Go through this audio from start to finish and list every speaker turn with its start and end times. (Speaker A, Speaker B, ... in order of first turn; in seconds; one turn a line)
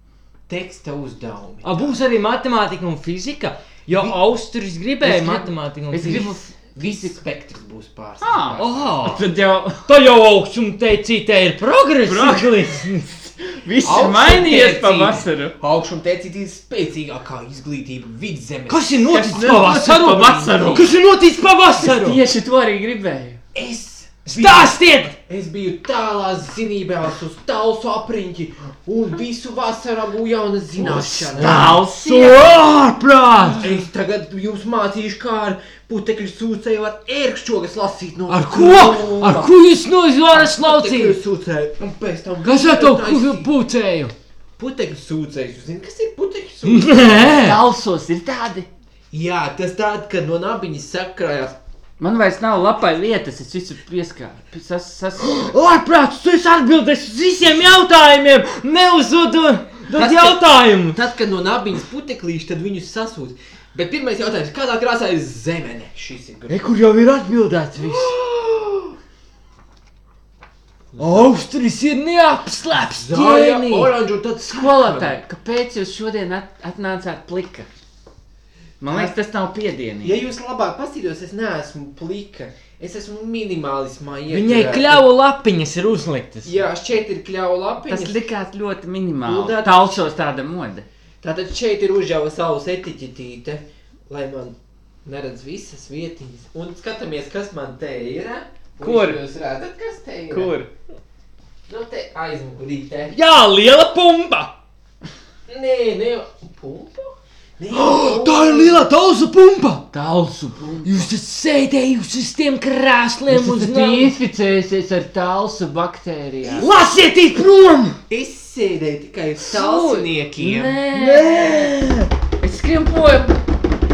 Speaker A: 0.5-1.9
Speaker B: 1.6-6.3
Speaker A: 3.9-4.3
Speaker A: 5.0-9.2
Speaker C: 5.9-6.9
Speaker C: 8.2-9.9
Speaker B: 8.6-9.3
Speaker B: 9.8-13.2
Speaker C: 12.0-15.6
Speaker A: 13.8-20.8
Speaker B: 18.7-22.2
Speaker C: 19.1-20.9
Speaker C: 21.8-23.4
Speaker A: 23.5-31.8
Speaker B: 24.3-25.2
Speaker B: 30.8-33.7
Speaker C: 31.4-32.5
Speaker A: 33.6-39.5
Speaker B: 38.3-41.2
Speaker A: 40.3-43.5
Speaker B: 42.4-44.1
Speaker A: 44.6-47.5
Speaker B: 46.7-47.6
Speaker C: 46.9-48.7
Speaker A: 49.1-51.6
Speaker C: 52.0-55.5
Speaker B: 55.2-61.0
Speaker A: 59.9-66.7
Speaker B: 66.5-68.2
Speaker A: 67.8-68.9
Speaker A: 70.9-71.3
Speaker B: 71.0-73.9
Speaker A: 73.0-75.2
Speaker C: 74.5-77.7
Speaker C: 78.8-80.2
Speaker A: 78.9-79.1
Speaker A: 80.0-85.0
Speaker B: 84.3-86.6
Speaker A: 86.4-88.2
Speaker C: 87.8-90.9
Speaker A: 89.2-90.1
Speaker A: 91.2-100.6
Speaker C: 98.8-99.2
Speaker C: 100.3-100.7
Speaker A: 101.7-103.2
Speaker B: 103.1-104.6
Speaker A: 105.5-108.8
Speaker B: 107.7-109.9
Speaker C: 109.9-111.1
Speaker B: 110.8-114.1
Speaker C: 113.3-116.7
Speaker B: 116.5-118.0
Speaker A: 118.1-120.8
Speaker C: 119.5-121.8
Speaker B: 120.9-122.1
Speaker C: 122.4-123.4